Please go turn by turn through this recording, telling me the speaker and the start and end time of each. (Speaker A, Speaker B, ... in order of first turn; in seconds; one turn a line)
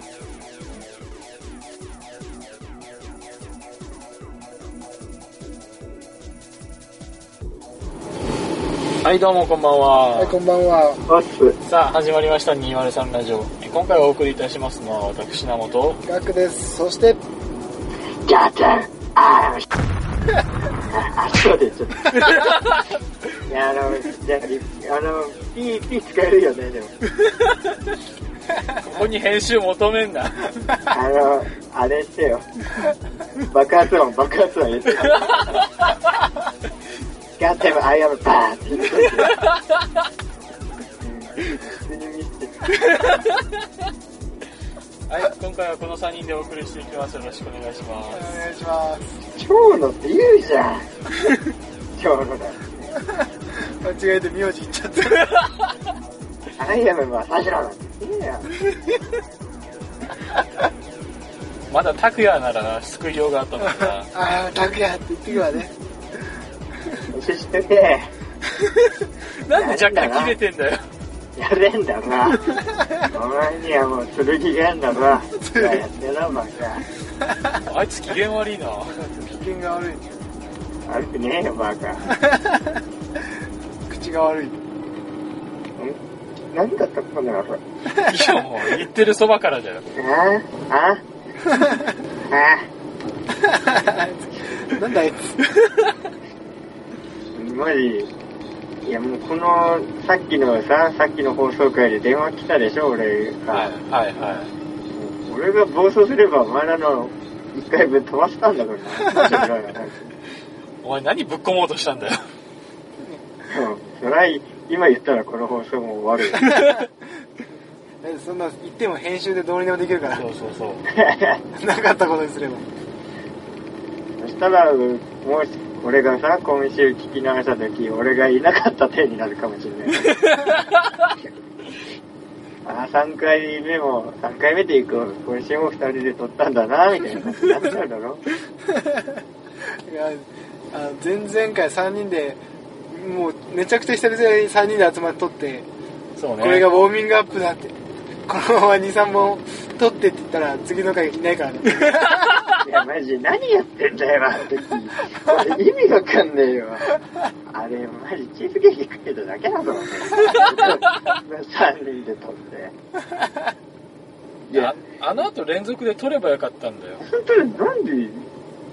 Speaker A: 9.0-10.4
Speaker B: 10.2-11.0
Speaker C: 11.1-11.6
Speaker A: 11.6-16.0
Speaker B: 16.0-17.2
Speaker C: 18.2-19.6
Speaker C: 20.9-22.0
Speaker A: 22.2-22.8
Speaker C: 23.5-26.9
Speaker A: 28.7-30.7
Speaker C: 30.9-32.5
Speaker C: 33.4-35.6
Speaker C: 37.4-39.4
Speaker C: 41.0-42.7
Speaker A: 42.9-43.3
Speaker A: 45.1-48.4
Speaker B: 48.1-49.2
Speaker C: 49.3-50.9
Speaker C: 51.9-52.9
Speaker B: 53.8-55.4
Speaker C: 56.6-58.5
Speaker A: 61.7-64.1
Speaker B: 63.6-65.7
Speaker C: 67.1-68.1
Speaker A: 69.3-70.8
Speaker C: 69.5-70.4
Speaker C: 71.3-72.4
Speaker B: 72.7-73.0
Speaker C: 73.1-76.8
Speaker B: 75.4-75.8
Speaker A: 77.7-79.0
Speaker B: 79.0-80.1
Speaker C: 80.8-82.2
Speaker B: 82.1-82.8
Speaker B: 83.9-84.5
Speaker C: 86.5-87.6
Speaker B: 87.9-88.3
Speaker A: 88.0-89.8
Speaker C: 89.9-91.0
Speaker B: 91.5-91.8
Speaker C: 92.3-92.7
Speaker B: 93.4-95.4
Speaker C: 97.3-98.1
Speaker C: 98.8-103.7
Speaker A: 103.5-104.5
Speaker C: 105.0-110.1
Speaker A: 110.8-112.2
Speaker C: 113.5-116.5
Speaker B: 116.5-116.9
Speaker B: 118.0-120.2
Speaker A: 120.1-120.8
Speaker C: 120.9-121.4
Speaker B: 121.5-122.6
Speaker C: 124.2-130.0
Speaker A: 130.0-130.6
Speaker C: 132.6-138.2
Speaker B: 138.8-139.2
Speaker B: 139.8-142.4
Speaker B: 142.9-145.7
Speaker A: 146.2-146.7
Speaker B: 146.4-147.7
Speaker B: 148.3-152.6
Speaker C: 152.6-156.9
Speaker C: 157.5-162.7
Speaker A: 160.2-160.4
Speaker C: 164.5-164.8
Speaker A: 164.5-167.0
Speaker C: 167.0-168.3